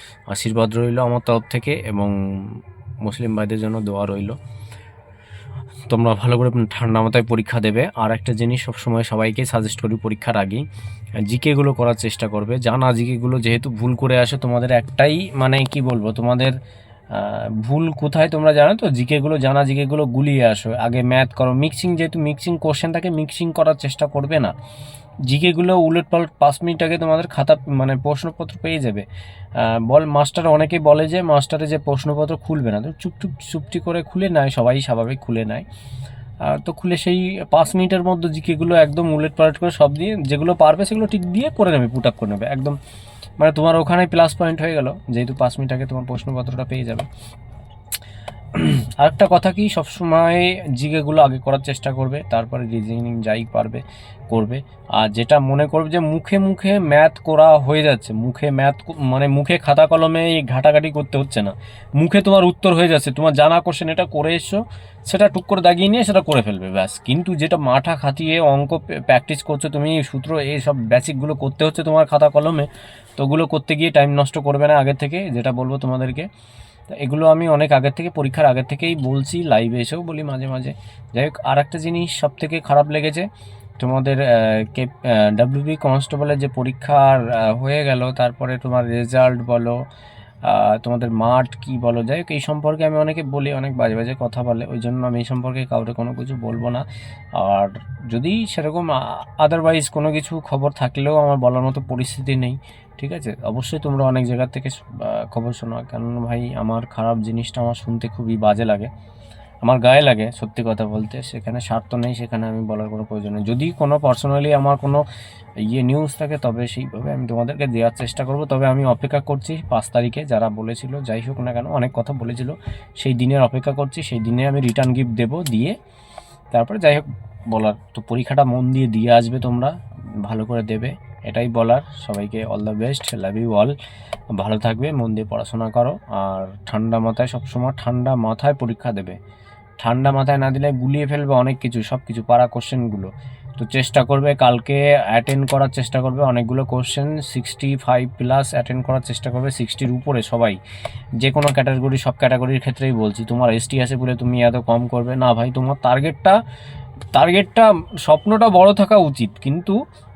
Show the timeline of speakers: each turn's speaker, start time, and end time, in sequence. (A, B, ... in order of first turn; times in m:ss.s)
0:00.3-0:04.4 A
0:05.9-0:10.6 A
0:11.2-0:16.6 A
0:17.1-0:24.5 A
0:25.3-0:29.0 A
0:29.6-0:35.6 A
0:36.4-0:42.8 A
0:43.4-0:47.1 A
0:48.5-1:16.3 A
1:16.9-1:23.3 A
1:23.8-1:29.8 A
1:30.4-1:36.8 A
1:37.4-1:48.9 A
1:49.6-1:55.0 A
1:55.6-2:05.8 A
2:06.5-2:13.7 A
2:14.3-2:19.2 A
2:19.8-2:30.6 A
2:31.2-2:36.4 A
2:37.1-2:39.8 A